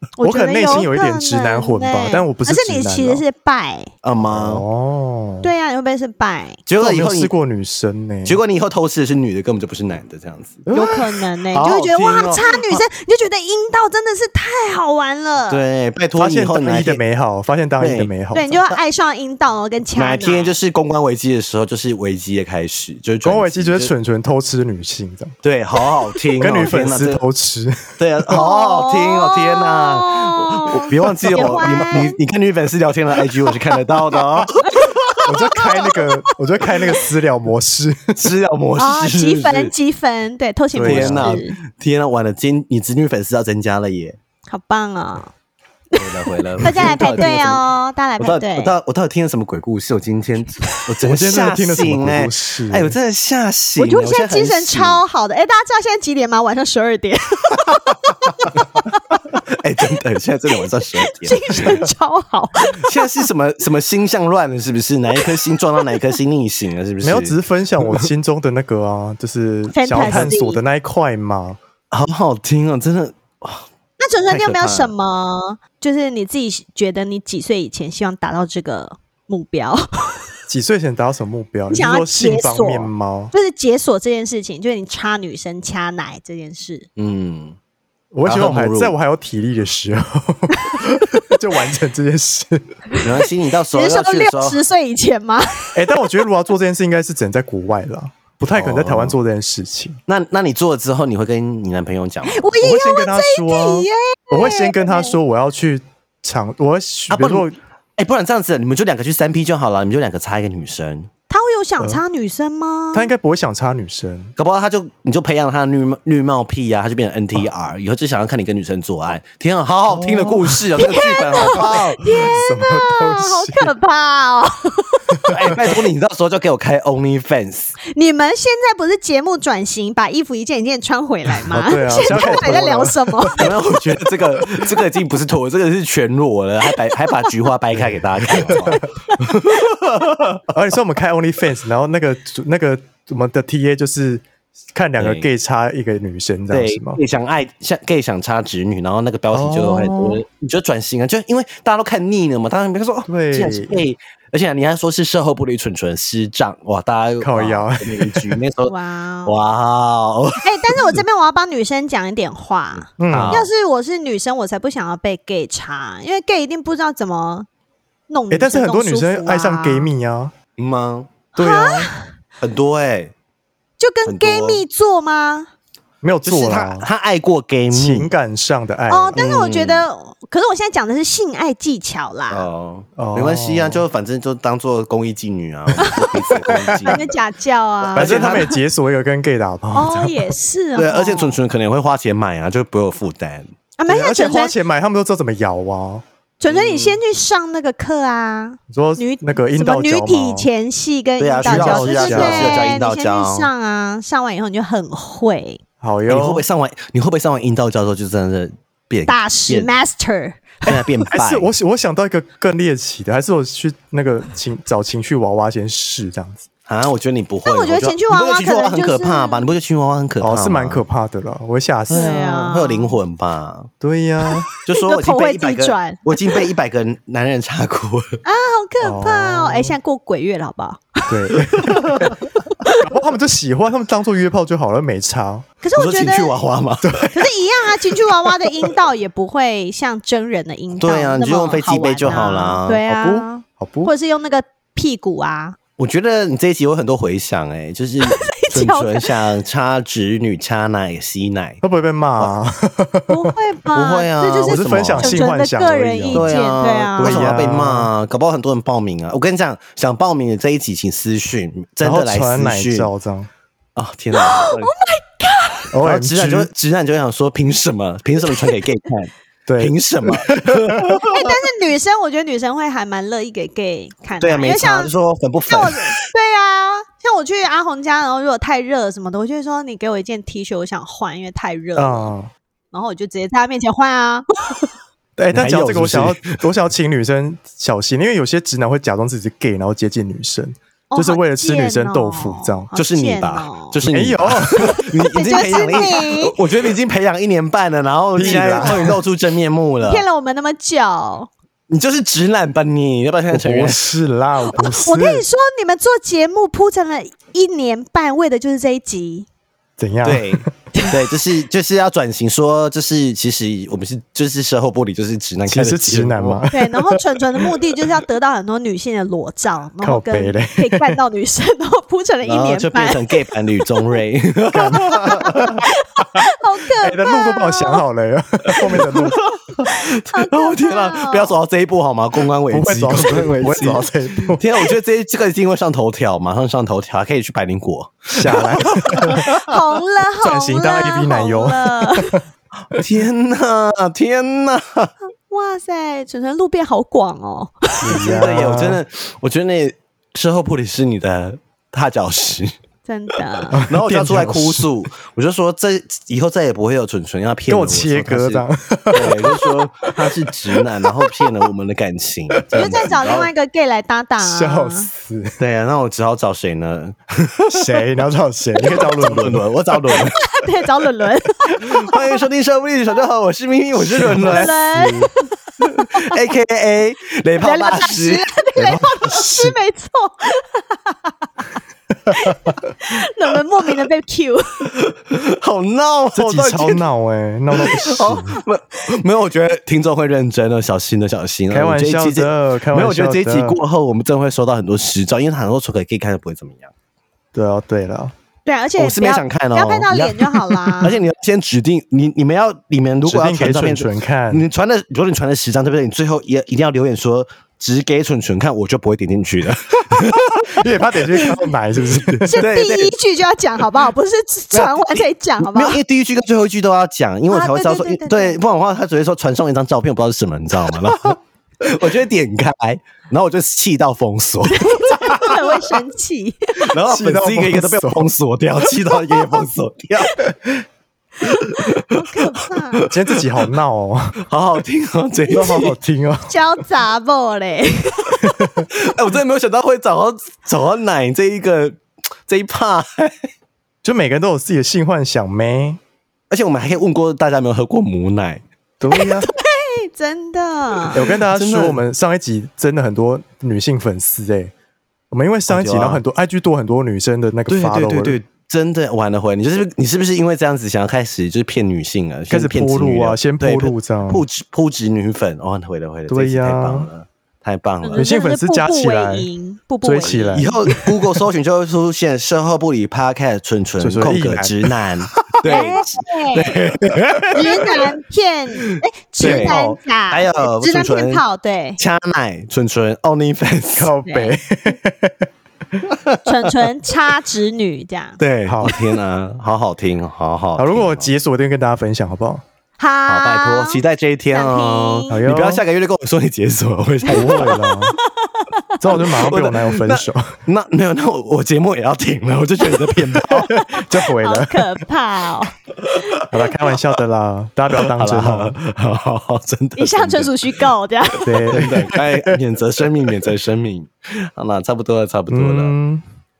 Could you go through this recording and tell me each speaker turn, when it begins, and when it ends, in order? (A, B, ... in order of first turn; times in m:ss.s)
0:00.2-0:03.9 A
0:00.2-0:03.2 B
0:04.0-0:04.6 C
0:04.3-0:05.5 B
0:05.4-0:06.6 A
0:06.6-0:07.3 C
0:06.8-0:08.4 B
0:08.2-0:12.8 C
0:10.7-0:15.6 A
0:15.5-0:17.0 C
0:16.2-0:18.6 B
0:17.8-0:18.1 C
0:18.3-0:20.6 A
0:20.0-0:23.9 C
0:23.2-0:25.3 B
0:25.4-0:27.2 C
0:26.4-0:27.9 B
0:28.0-0:35.1 C
0:28.3-0:32.2 A
0:31.4-0:32.0 B
0:34.7-0:36.3 A
0:35.2-0:38.3 B
0:38.2-0:39.7 C
0:38.8-0:41.6 A
0:40.8-0:41.4 B
0:40.8-0:44.2 C
0:44.5-0:45.3 A
0:46.0-0:47.6 C
0:46.6-0:48.7 A
0:48.2-0:55.0 C
0:51.0-0:53.0 B
0:53.8-0:59.2 A
0:59.3-1:01.8 C
1:00.9-1:03.3 A
1:02.8-1:08.1 C
1:07.0-1:11.6 B
1:09.7-1:10.6 A
1:10.0-1:10.4 C
1:11.9-1:13.7 C
1:14.0-1:20.2 A
1:14.3-1:14.9 C
1:20.5-1:23.3 B
1:21.7-1:26.9 A
1:27.0-1:27.6 C
1:28.1-1:32.8 B
1:28.2-1:28.9 C
1:32.9-1:36.0 A
1:33.0-1:34.6 C
1:35.7-1:40.0 B
1:38.5-1:39.2 C
1:40.1-1:42.4 C
1:42.2-1:45.2 A
1:42.6-1:47.6 B
1:47.1-1:51.1 C
1:51.3-1:53.1 A
1:52.9-1:54.3 B
1:54.4-2:02.2 C
1:59.9-2:00.7 B
2:00.8-2:05.3 A
2:01.4-2:03.7 B
2:05.2-2:05.6 B
2:05.3-2:07.8 C
2:07.8-2:13.5 A
2:11.4-2:13.9 B
2:12.0-2:12.6 C
2:13.4-2:20.5 C
2:14.4-2:14.8 B
2:18.3-2:18.8 B
2:18.5-2:19.6 A
2:20.5-2:24.2 B
2:24.8-2:27.0 B
2:25.0-2:25.3 C
2:26.5-2:38.7 C
2:29.3-2:30.2 B
2:33.1-2:33.8 B
2:37.2-2:38.4 B
2:38.7-2:39.4 A
2:39.2-2:41.0 C
2:40.4-2:47.5 A
2:43.0-2:43.5 B
2:43.1-2:43.5 C
2:48.1-2:49.9 A
2:48.3-2:50.3 B
2:50.6-2:51.1 C
2:51.4-2:52.1 A
2:51.4-2:51.9 B
2:52.4-2:53.1 C
2:53.8-2:55.5 A
2:54.0-2:54.6 C
2:56.0-2:56.9 B
2:56.2-2:58.1 C
2:57.7-2:59.2 B
2:58.9-3:02.5 A
2:59.2-2:59.9 C
3:02.3-3:07.1 C
3:03.0-3:03.8 B
3:05.8-3:08.6 A
3:06.4-3:07.0 B
3:07.8-3:08.5 C
3:08.0-3:10.3 B
3:09.7-3:11.4 A
3:10.8-3:13.5 C
3:13.8-3:14.5 A
3:13.9-3:16.0 B
3:16.4-3:25.6 A
3:16.5-3:17.0 C
3:18.7-3:20.5 B
3:21.2-3:23.5 C
3:21.4-3:22.7 B
3:25.8-3:26.4 B
3:26.1-3:29.7 C
3:29.1-3:30.5 A
3:30.6-3:31.5 C
3:30.7-3:36.5 B
3:36.7-3:40.8 C
3:37.4-3:39.5 A
3:40.2-3:42.2 B
3:41.9-3:43.7 C
3:41.9-3:43.0 A
3:43.8-3:44.5 B
3:44.6-3:48.2 C
3:44.7-3:46.4 A
3:48.2-3:51.4 A
3:48.8-3:49.8 B
3:51.1-3:55.5 B
3:51.6-3:52.1 C
3:52.6-3:52.9 A
3:55.6-3:56.4 A
3:55.8-3:57.1 C
3:56.8-3:57.3 B
3:57.1-4:05.6 A
4:00.8-4:02.8 C
4:02.0-4:02.3 B
4:02.9-4:03.9 B
4:05.8-4:11.6 C
4:08.0-4:09.1 A
4:11.6-4:13.3 B
4:13.1-4:17.4 A
4:13.7-4:15.2 C
4:14.4-4:16.3 B
4:16.1-4:22.9 C
4:17.0-4:17.9 B
4:21.8-4:23.3 B
4:23.8-4:24.7 C
4:24.1-4:25.7 A
4:25.7-4:26.5 B
4:25.8-4:31.3 C
4:29.5-4:31.0 B
4:31.0-4:34.9 A
4:34.2-4:35.9 C
4:35.5-4:42.1 A
4:41.8-4:42.3 B
4:42.7-4:44.2 A
4:45.2-4:52.7 B
4:45.3-4:46.4 C
4:50.9-4:53.8 A
4:52.8-5:00.0 C
4:53.8-4:54.8 B
4:54.5-4:56.4 A
4:55.5-4:55.9 B
4:58.2-4:59.0 B
4:58.2-4:58.9 A
4:59.8-5:01.3 A
5:01.7-5:03.9 C
5:03.3-5:05.2 B
5:04.4-5:09.3 A
5:09.8-5:10.5 B
5:10.0-5:16.5 C
5:15.5-5:17.2 B
5:16.5-5:23.4 A
5:19.8-5:21.0 B
5:22.2-5:25.6 C
5:24.5-5:25.6 B
5:24.8-5:27.8 A
5:26.8-5:29.3 B
5:28.6-5:39.5 C
5:28.7-5:31.4 A
5:32.5-5:34.4 B
5:38.1-5:39.4 B
5:39.4-5:42.2 A
5:40.2-5:42.2 B
5:42.7-5:44.9 C
5:45.3-5:48.3 A
5:47.8-5:48.8 B
5:47.9-5:52.5 C
5:52.9-5:53.6 A
5:53.5-5:54.7 B
5:53.6-6:03.3 C
5:57.5-6:00.2 B
6:02.3-6:02.8 B
6:02.5-6:04.9 A
6:04.2-6:05.4 B
6:05.4-6:08.0 C
6:07.5-6:09.5 B
6:08.6-6:10.2 C
6:10.1-6:12.2 A
6:11.5-6:14.5 C
6:14.0-6:15.1 B
6:14.2-6:16.2 A
6:15.6-6:18.5 C
6:17.4-6:21.3 A
6:18.6-6:19.5 B
6:22.1-6:24.7 A
6:24.7-6:26.8 C
6:26.2-6:28.4 B
6:27.5-6:36.7 C
6:31.5-6:33.6 B
6:37.3-6:38.1 B
6:38.4-6:40.9 A
6:38.8-6:40.2 C
6:40.8-6:52.9 C
6:43.0-6:44.4 B
6:50.0-6:52.4 B
6:52.2-6:55.8 A
6:54.5-7:05.3 C
6:57.3-6:58.4 A
7:00.8-7:01.1 B
7:04.5-7:06.7 A
7:06.7-7:10.2 C
7:06.9-7:08.1 B
7:11.2-7:13.5 C
7:11.9-7:12.8 A
7:12.9-7:14.2 B
7:14.2-7:15.8 C
7:15.3-7:16.4 B
7:15.3-7:15.6 A
7:16.3-7:18.4 A
7:18.2-7:18.7 B
7:18.7-7:23.3 C
7:23.8-7:25.8 B
7:26.3-7:28.4 C
7:28.8-7:29.3 B
7:28.9-7:31.0 A
7:30.9-7:34.5 B
7:31.0-7:31.8 C
7:35.1-7:38.2 B
7:35.5-7:36.0 C
7:37.5-7:48.0 C
7:42.3-7:44.2 B
7:46.1-7:46.9 B
7:47.8-7:50.5 A
7:48.0-7:49.3 B
7:49.8-7:51.2 B
7:50.0-7:57.7 C
7:53.8-7:55.8 B
7:55.4-7:56.6 A
7:56.8-7:57.7 B
7:57.3-8:01.8 A
7:59.2-7:59.8 B
7:59.2-8:01.2 C
8:01.8-8:03.9 C
8:03.8-8:05.2 B
8:04.0-8:04.3 A
8:05.9-8:06.2 C
8:06.2-8:08.2 A
8:08.2-8:11.1 C
8:08.5-8:08.7 B
8:10.6-8:12.4 B
8:12.8-8:15.2 A
8:13.1-8:17.8 C
8:15.1-8:15.6 B
8:17.0-8:18.0 B
8:17.4-8:18.6 A
8:18.8-8:20.4 B
8:18.9-8:23.5 C
8:23.0-8:24.8 B
8:23.4-8:26.2 A
8:26.2-8:28.6 B
8:27.7-8:30.7 C
8:29.8-8:31.6 A
8:31.2-8:32.4 B
8:31.5-8:35.7 C
8:35.3-8:36.0 B